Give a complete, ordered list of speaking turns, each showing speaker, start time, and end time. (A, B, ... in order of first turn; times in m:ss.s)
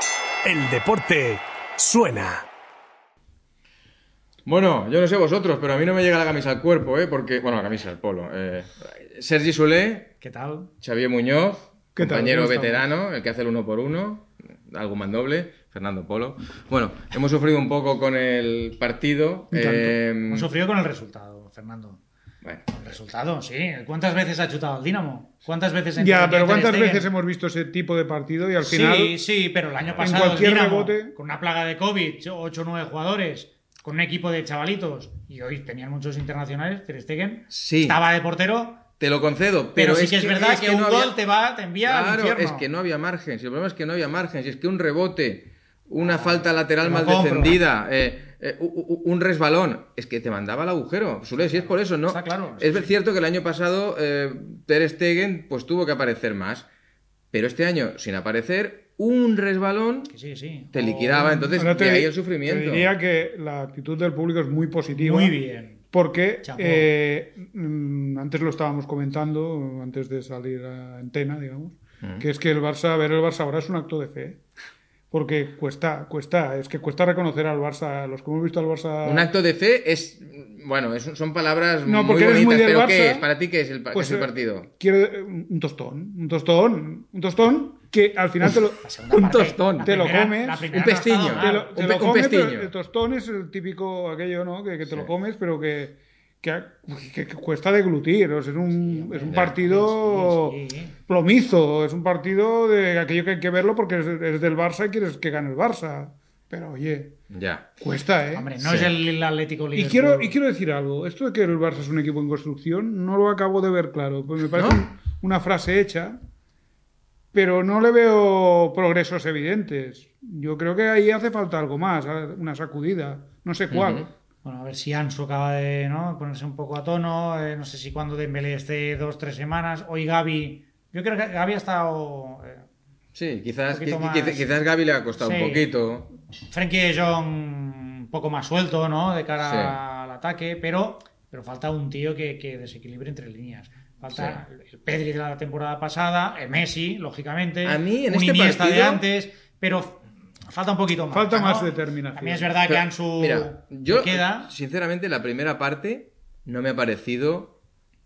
0:00.4-0:02.5 A
0:04.5-0:10.1 B
0:10.2-0:10.7 C
0:10.8-0:20.5 B
0:12.0-0:12.9 D
0:19.5-0:20.0 D
0:20.3-0:22.0 C
0:22.4-0:22.7 B
0:22.7-0:27.1 C
0:26.0-0:29.2 D
0:28.6-0:38.8 C
0:30.0-0:31.1 D
0:37.5-0:38.0 B
0:39.0-0:41.2 B
0:39.8-0:42.7 C
0:41.9-0:56.7 B
0:46.0-0:47.6 C
0:51.4-0:52.9 C
0:57.3-1:00.1 B
1:00.1-1:01.6 C
1:00.7-1:02.9 B
1:01.5-1:05.4 D
1:04.9-1:05.8 C
1:05.9-1:14.4 D
1:06.4-1:06.9 C
1:12.0-1:12.3 B
1:15.1-1:19.3 D
1:19.0-1:24.7 B
1:21.9-1:23.3 D
1:23.9-1:28.8 D
1:28.8-1:31.8 C
1:29.1-1:29.9 B
1:29.8-1:40.6 D
1:30.7-1:32.7 B
1:38.7-1:41.0 C
1:39.3-1:39.6 B
1:41.1-1:47.2 D
1:47.3-1:47.7 B
1:47.8-1:48.5 D
1:48.3-1:50.4 C
1:48.6-1:48.9 B
1:49.8-1:56.2 D
1:54.6-1:54.8 B
1:57.3-2:04.1 D
2:03.7-2:04.1 B
2:04.4-2:12.7 C
2:13.2-2:16.1 B
2:13.7-2:14.5 C
2:15.2-2:15.7 C
2:16.4-2:34.5 C
2:19.4-2:19.8 B
2:24.1-2:24.4 B
2:27.6-2:29.0 B
2:31.1-2:32.5 D
2:32.7-2:37.6 B